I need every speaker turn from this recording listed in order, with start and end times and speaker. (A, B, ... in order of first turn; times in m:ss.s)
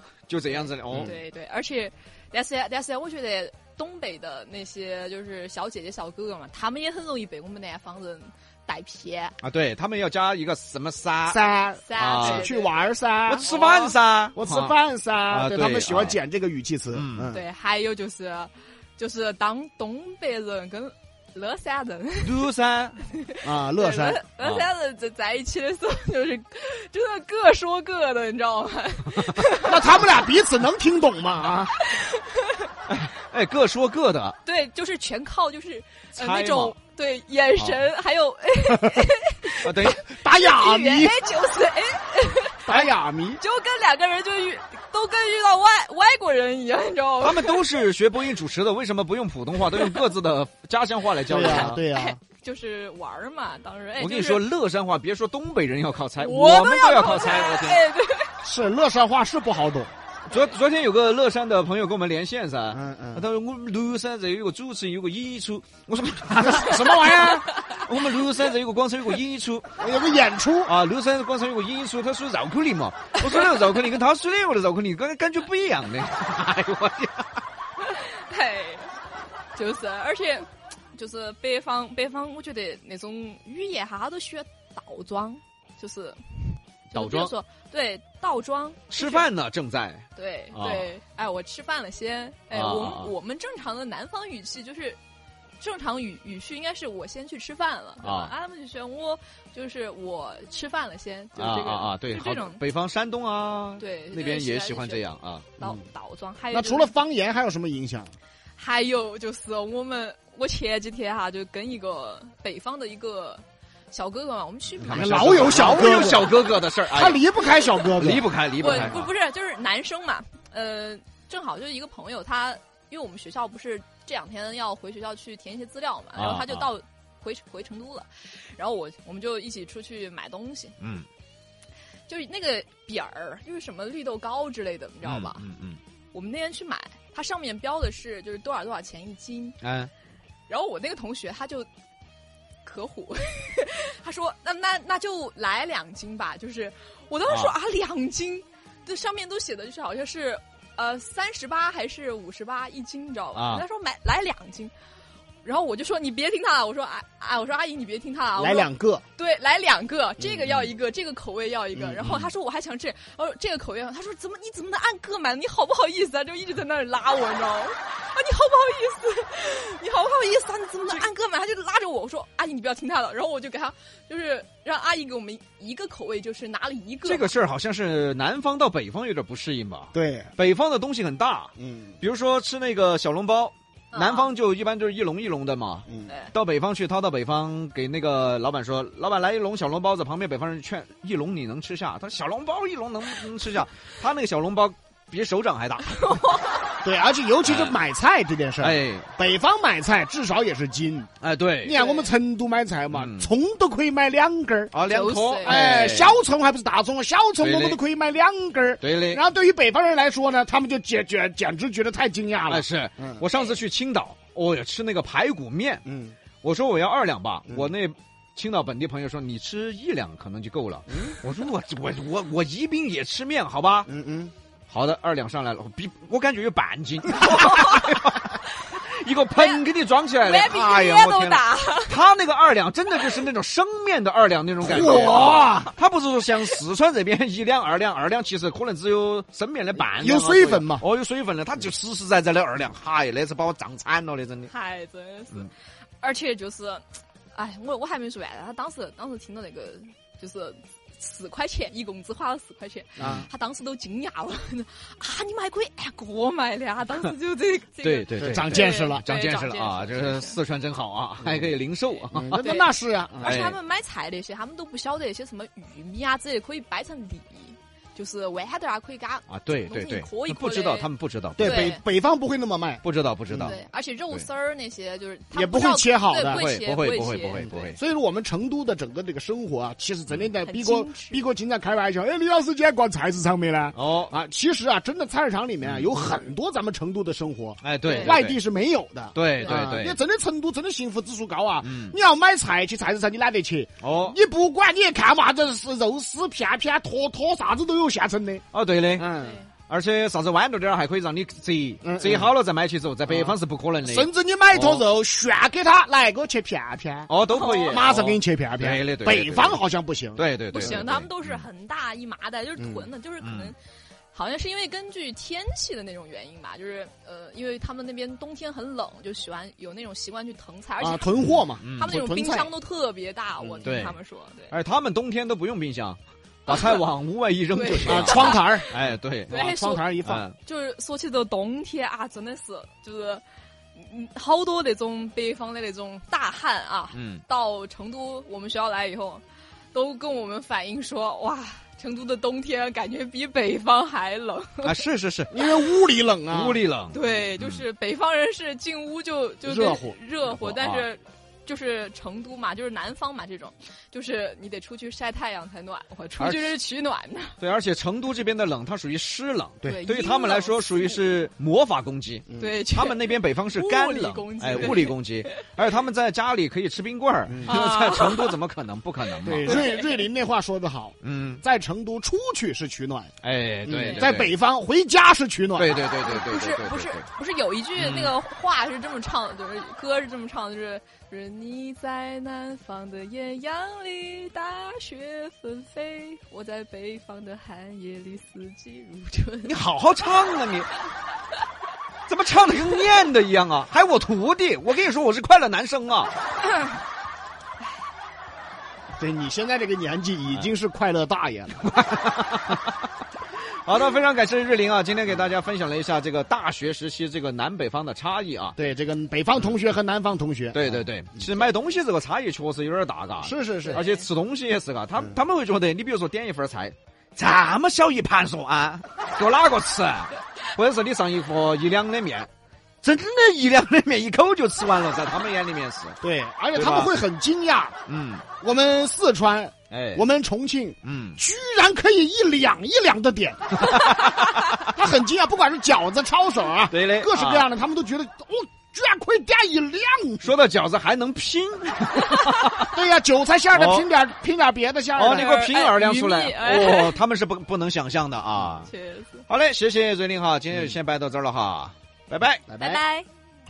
0:00.3-0:01.1 A
0:00.9-0:09.4 B
0:09.4-0:11.4 A
0:11.3-0:13.5 C
0:11.8-0:12.8 B
0:12.0-0:12.5 A
0:13.3-0:14.8 A
0:13.4-0:14.0 B
0:14.4-0:17.4 C
0:15.3-0:16.2 A
0:16.9-0:17.3 A
0:17.3-0:22.4 B
0:22.2-0:23.0 A
0:23.2-0:29.9 B
0:23.4-0:24.2 C
0:24.4-0:24.7 A
0:29.6-0:31.7 C
0:31.8-0:32.7 B
0:32.9-0:34.4 A
0:34.4-0:42.9 B
0:36.2-0:36.8 A
0:39.6-0:40.0 A
0:40.0-0:41.2 C
0:42.7-0:43.4 C
0:43.4-0:47.7 B
0:47.2-0:51.8 A
0:49.6-0:50.0 B
0:51.2-0:52.2 C
0:51.9-0:54.4 B
0:54.0-0:57.8 A
0:56.2-0:58.4 B
0:58.4-0:59.9 C
1:00.3-1:09.7 A
1:02.7-1:03.2 C
1:06.5-1:07.4 C
1:09.8-1:10.7 C
1:10.6-1:17.4 A
1:17.8-1:18.9 B
1:19.5-1:29.3 B
1:26.9-1:27.3 A
1:28.9-1:30.9 A
1:30.2-1:35.0 B
1:32.5-1:33.1 A
1:35.6-1:42.6 B
1:38.0-1:38.3 A
1:41.4-1:45.5 A
1:43.8-1:45.0 B
1:45.6-1:46.9 B
1:46.5-1:48.1 C
1:48.6-1:55.8 B
1:54.8-1:57.2 A
1:54.9-1:59.0 C
1:57.9-1:59.1 A
1:58.6-2:10.8 B
2:06.2-2:06.7 A
2:10.8-2:11.1 A
2:12.1-2:15.4 B
2:15.0-2:15.8 A
2:16.1-2:19.6 B
2:19.6-2:19.9 A
2:20.5-2:21.7 B
2:22.6-2:34.7 B
2:33.3-2:33.6 A
2:35.4-2:57.3 B
2:38.4-2:39.0 C
2:40.3-2:40.7 A
2:42.0-2:42.3 A
2:57.1-3:16.2 A
2:59.9-3:00.3 C
3:01.6-3:02.0 C
3:03.9-3:04.3 B
3:16.0-3:16.7 B
3:16.8-3:21.1 C
3:17.4-3:17.8 A
3:18.6-3:19.1 A
3:21.2-3:21.8 A
3:21.6-3:24.7 C
3:21.8-3:22.1 B
3:22.9-3:23.3 A
3:24.7-3:26.2 A
3:24.8-3:25.7 B
3:25.4-3:33.2 C
3:27.4-3:27.8 A
3:28.8-3:29.2 A
3:32.5-3:35.8 A
3:35.9-3:36.2 C
3:36.4-3:43.9 A
3:40.9-3:41.2 C
3:43.9-3:44.3 C
3:44.7-4:04.5 A
3:47.4-3:47.8 B
3:49.4-3:49.6 B
3:50.2-3:52.0 B
3:54.6-3:55.7 C
3:59.8-4:00.8 C
4:04.5-4:05.5 B
4:06.0-4:20.4 B
4:13.0-4:13.3 C
4:13.0-4:13.3 A
4:17.8-4:22.5 A
4:18.2-4:19.0 C
4:21.2-4:21.5 C
4:22.1-4:23.4 C
4:22.3-4:31.8 B
4:23.2-4:23.6 A
4:29.3-4:31.8 A
4:31.4-4:33.6 C
4:32.8-4:33.6 A
4:33.4-4:37.8 B
4:35.3-4:36.4 C
4:36.2-4:37.8 A
4:37.4-4:58.4 C
4:40.4-4:41.2 B
4:43.8-4:44.1 A
4:45.6-4:45.9 A
4:47.6-4:48.4 A
4:47.9-4:48.2 B
4:49.1-4:50.0 A
4:51.6-4:52.0 A
4:53.8-4:54.2 A
4:58.5-4:59.1 A
4:59.0-4:59.4 C
4:59.1-4:59.5 B
4:59.7-5:04.9 A
5:01.8-5:02.3 C
5:03.1-5:10.9 C
5:07.1-5:09.6 A
5:07.3-5:07.9 B
5:10.2-5:11.4 A
5:10.5-5:13.6 B
5:12.6-5:12.9 C
5:13.2-5:13.5 A
5:14.1-5:24.6 B
5:20.8-5:22.5 C
5:21.6-5:21.9 A
5:23.4-5:23.7 C
5:23.6-5:24.0 A
5:24.5-5:29.5 A
5:26.5-5:26.8 B
5:27.5-5:28.7 B
5:27.9-5:28.8 C
5:29.3-5:30.2 C
5:29.3-5:33.2 B
5:30.0-5:30.4 A
5:33.8-5:44.7 B
5:36.9-5:37.2 A
5:44.6-5:45.4 A
5:45.3-5:46.6 C
5:46.3-5:47.6 A
5:46.9-5:57.4 B
5:49.4-5:50.0 C
5:50.2-5:50.9 A
5:56.2-5:56.5 A
5:57.4-6:09.6 A
5:59.6-6:01.1 B
6:02.4-6:05.4 B
6:07.3-6:07.6 C
6:07.5-6:08.4 B
6:09.2-6:13.1 C
6:09.4-6:10.0 B
6:11.0-6:11.4 A
6:13.2-6:14.3 A
6:13.7-6:15.8 C
6:15.6-6:17.1 A
6:16.0-6:29.5 B
6:17.8-6:18.2 A
6:29.4-6:30.7 A
6:32.1-6:36.1 A
6:39.0-6:41.6 C
6:41.6-6:42.8 A
6:43.6-6:48.6 A
6:48.6-6:50.8 C
6:50.5-7:02.3 A
6:53.2-6:53.8 C
6:53.7-6:54.1 B
7:02.8-7:06.0 A
7:06.0-7:07.8 C
7:06.6-7:06.9 A
7:07.9-7:08.2 A
7:08.4-7:20.3 C
7:09.7-7:10.0 A
7:10.8-7:11.2 A
7:13.6-7:14.4 A
7:16.7-7:17.5 A
7:20.2-7:22.8 A
7:22.7-7:25.3 C
7:23.5-7:23.9 A
7:25.0-7:28.7 A
7:25.1-7:27.0 B
7:28.6-7:29.2 B
7:29.3-7:32.4 A
7:32.5-7:32.8 C
7:32.6-7:33.1 B